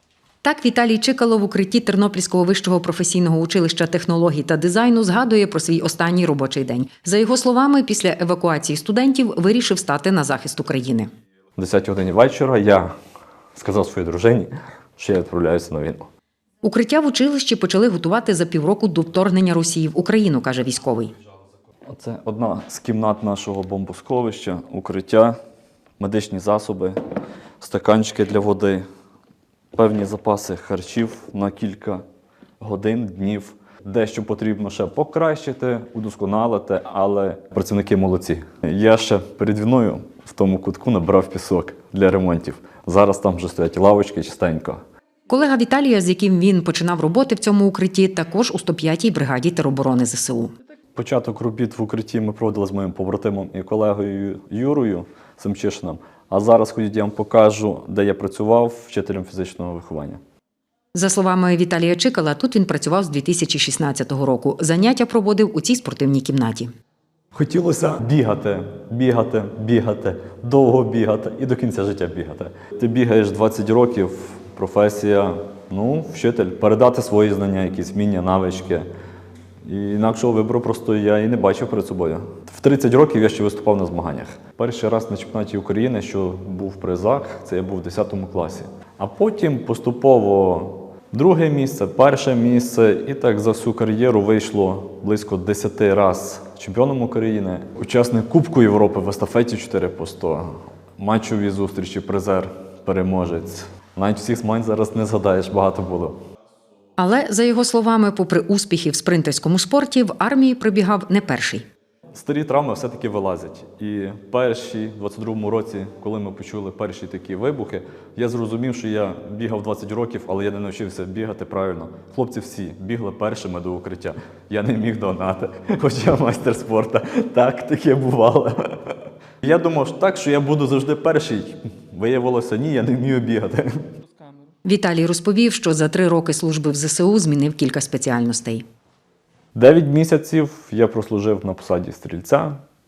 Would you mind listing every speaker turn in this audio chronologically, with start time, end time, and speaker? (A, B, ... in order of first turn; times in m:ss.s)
0:00.4-0:11.1 A
0:11.6-0:12.9 B
0:13.6-0:16.1 B
0:16.6-0:21.1 A
0:21.9-0:25.4 B
0:26.0-0:27.0 B
0:27.6-0:28.8 B
0:29.7-0:32.0 B
0:32.6-0:44.8 B
0:45.3-0:50.5 A
0:51.0-1:00.2 B
1:00.9-1:06.7 A
1:07.3-1:18.9 B
1:19.6-1:46.2 B
1:47.0-1:51.6 A
1:52.1-2:13.9 B
2:14.6-2:18.6 A
2:19.5-2:22.6 B